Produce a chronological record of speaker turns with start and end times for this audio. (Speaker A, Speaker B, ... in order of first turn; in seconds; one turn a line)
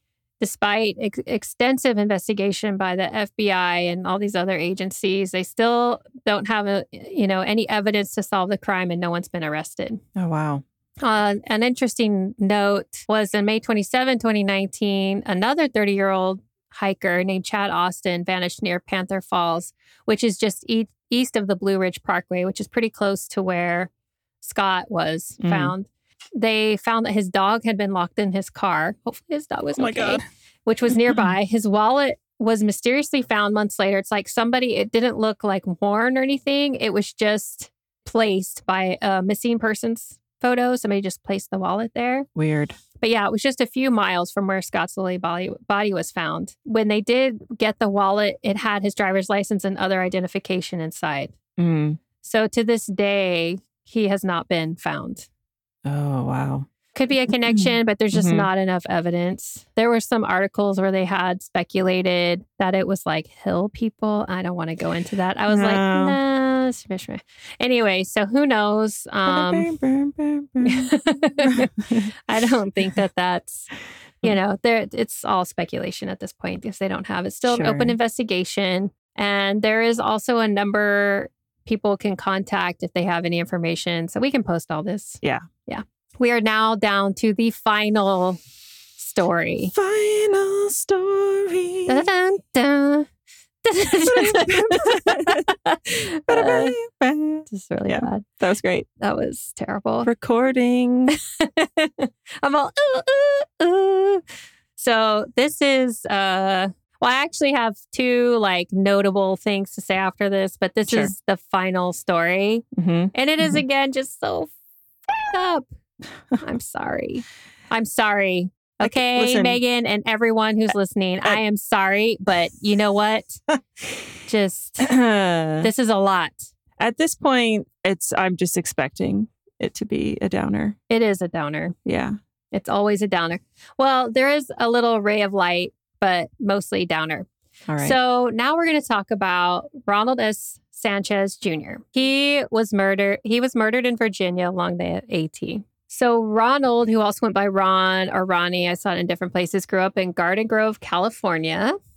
Speaker A: 0.4-10.0
Speaker B: 10.2-10.6
Speaker A: 11.0-23.9
Speaker A: 24.4-42.3
Speaker B: 25.4-25.7
Speaker B: 29.8-30.2
Speaker B: 42.4-42.8
Speaker A: 43.0-51.4
Speaker B: 51.6-52.0
Speaker A: 52.2-55.3
Speaker B: 55.9-56.7
Speaker A: 57.0-69.7
Speaker B: 57.5-58.5
Speaker B: 65.5-66.2
Speaker B: 69.3-72.1
Speaker A: 70.6-71.7
Speaker A: 72.3-73.7
Speaker A: 74.2-88.4
Speaker B: 77.5-78.0
Speaker B: 85.2-85.5
Speaker A: 89.0-89.7
Speaker B: 89.7-92.1
Speaker A: 91.9-93.1
Speaker A: 93.6-96.8
Speaker B: 93.9-98.9
Speaker A: 97.5-98.2
Speaker A: 99.0-100.1
Speaker B: 100.0-101.2
Speaker A: 101.4-104.2
Speaker A: 104.8-114.5
Speaker B: 112.8-113.6
Speaker A: 115.2-115.7
Speaker A: 116.4-123.4
Speaker B: 118.8-119.6
Speaker A: 124.3-124.9
Speaker B: 124.8-125.7
Speaker A: 125.6-126.4
Speaker B: 126.8-130.8
Speaker A: 130.9-131.8
Speaker B: 131.9-132.2
Speaker A: 132.5-137.3
Speaker B: 137.7-138.0
Speaker A: 137.8-151.8